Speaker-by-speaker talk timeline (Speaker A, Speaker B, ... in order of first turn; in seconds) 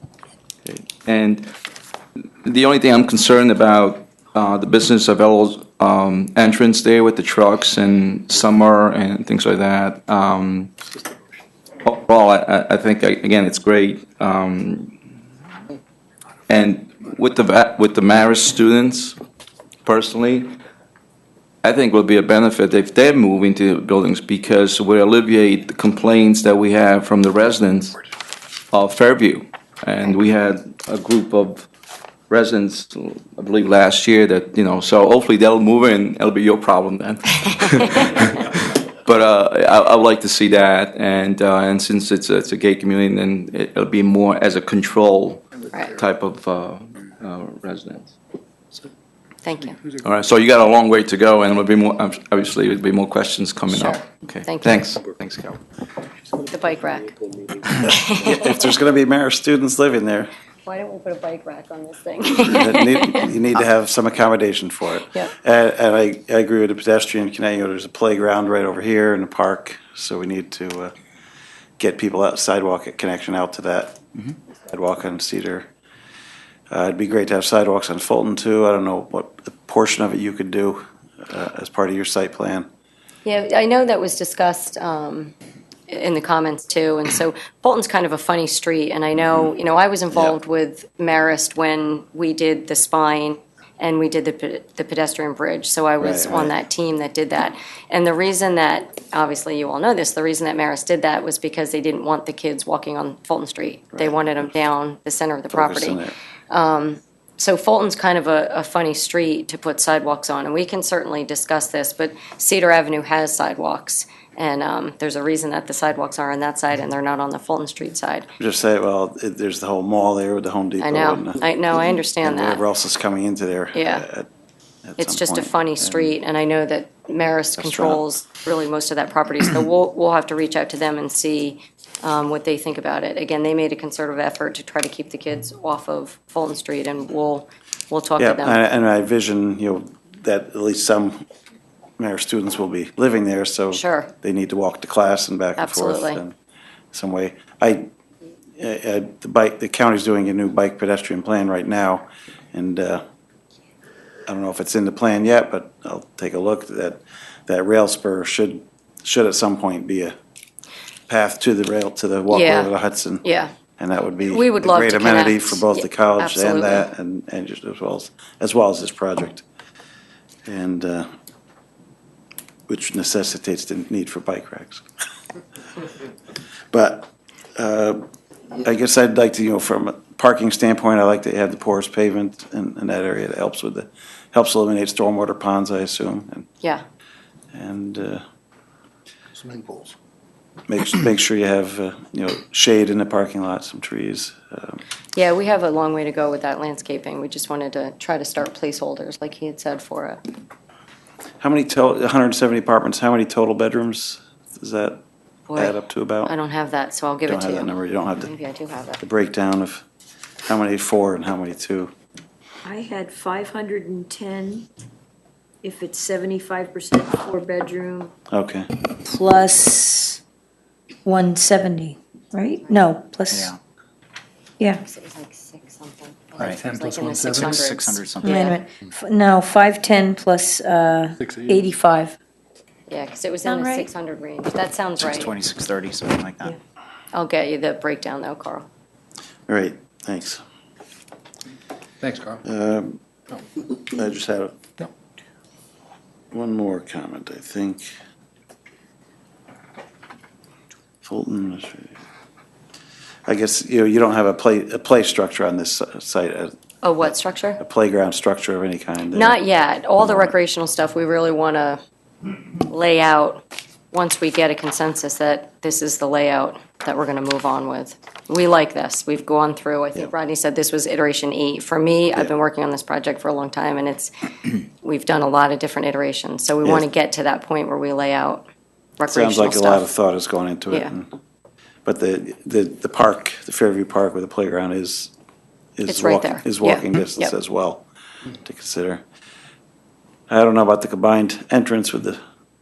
Speaker A: 0.6-1.4, 2.4-10.7, 11.8-14.9, 16.5-19.1, 19.8-20.5, 21.6-28.0, 28.7-31.6, 32.3-45.4, 46.0-48.1, 50.0-55.6
Speaker B: 49.4-49.8, 53.7-54.8, 56.5-57.1, 57.7-58.5, 60.6-63.3, 83.2-85.3, 85.9-118.3, 120.8-122.6, 123.7-124.0, 125.0-138.6, 143.7-144.1, 145.6-146.2, 162.3-162.7, 163.2-163.5, 164.2-166.9, 195.1-200.2, 205.5-209.0, 222.4-222.9, 224.8-228.6, 232.9-235.3, 237.1-238.7, 256.8-257.6, 259.1-261.8, 262.6-274.1, 274.8-279.9, 285.9-287.3
Speaker C: 57.1-57.6, 189.4-189.9, 226.5-227.7, 231.2-231.7, 242.0-242.4
Speaker D: 57.9-60.3, 62.5-70.9, 71.8-74.0, 74.7-75.7, 76.7-82.7, 96.0-96.5, 105.5-106.1, 118.4-121.4, 122.2-124.3, 124.9-126.2, 127.6-128.0, 138.2-141.2, 142.0-146.3, 146.9-147.9, 148.6-153.0, 154.3-160.1, 161.1-163.2, 163.8-169.4, 170.4-171.1, 172.7-174.8, 176.7-178.0, 178.6-186.5, 187.5-188.2, 190.7-194.8, 201.4-205.0, 205.6-206.3, 207.2-208.3, 209.0-209.8, 210.4-211.9, 218.3-218.7, 239.5-240.4, 242.4-243.0, 243.8-244.6, 246.3-247.9, 251.0-252.0, 253.2-259.4, 260.0-260.3, 279.1-281.1, 281.8-285.1, 285.8-287.9, 288.4-289.0, 290.3-292.2
Speaker E: 212.7-213.6, 214.2-214.6, 215.6-218.0, 219.0-220.2, 221.0-223.5, 228.2-232.2, 233.4-233.9
Speaker F: 212.8-214.6, 215.8-218.1
Speaker G: 223.3-223.6, 227.3-228.3, 235.0-236.5